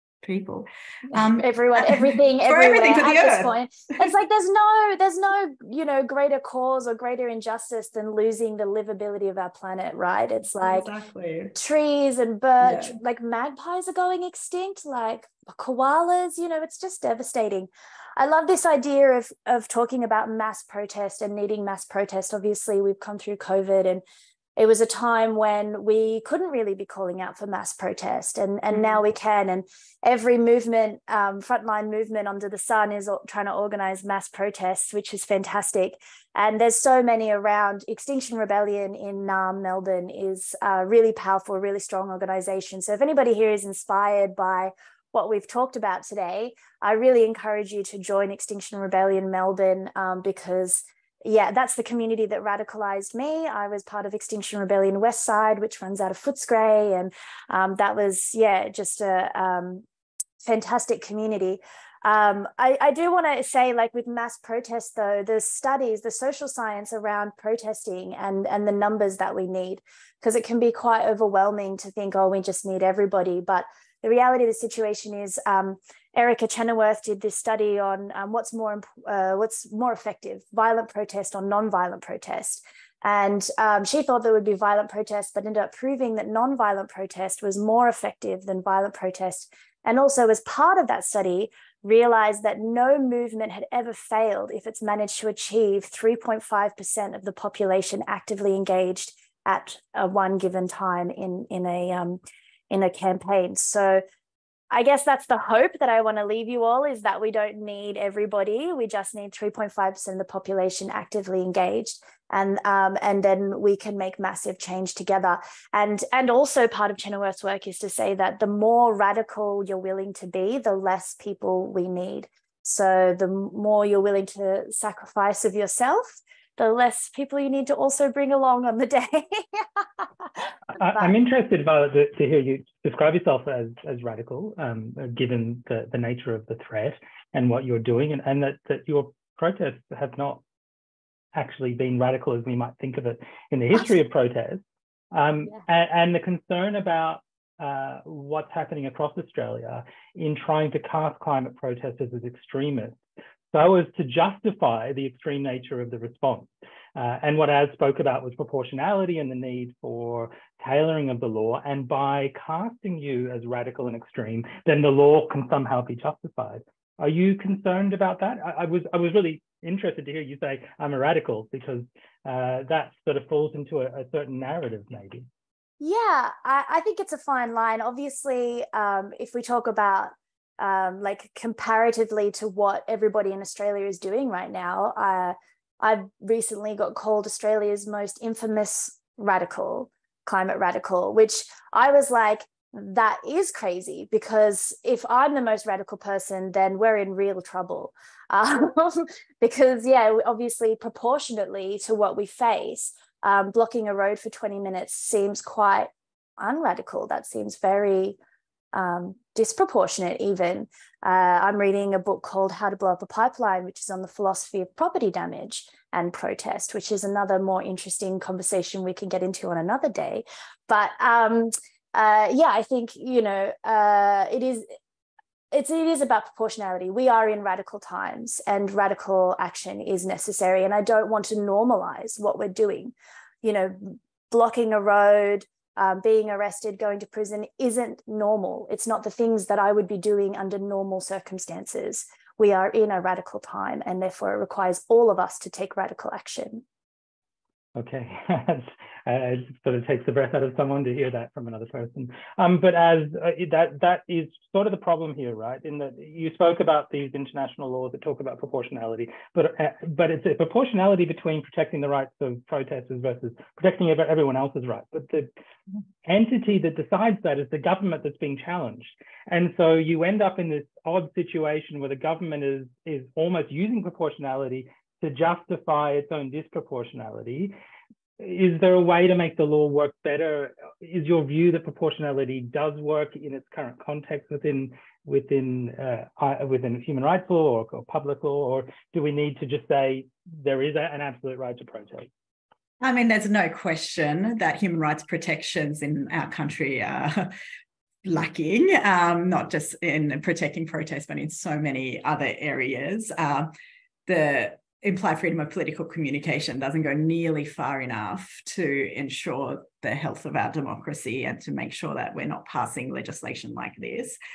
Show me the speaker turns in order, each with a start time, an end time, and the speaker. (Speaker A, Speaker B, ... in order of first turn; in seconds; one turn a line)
Speaker A: 0.2-4.0
Speaker B: 1.1-10.9
Speaker A: 10.6-11.5
Speaker B: 11.5-24.0
Speaker A: 12.6-12.9
Speaker B: 24.6-59.8
Speaker A: 28.7-29.0
Speaker B: 60.4-104.0
Speaker B: 104.7-131.1
Speaker C: 130.8-140.4
Speaker C: 141.3-153.0
Speaker C: 153.5-175.3
Speaker B: 175.8-208.2
Speaker B: 208.7-224.7
Speaker B: 225.5-246.6
Speaker C: 247.8-265.3
Speaker C: 266.0-277.5
Speaker C: 278.2-292.1
Speaker A: 292.8-297.3
Speaker A: 298.0-303.5
Speaker A: 304.1-314.2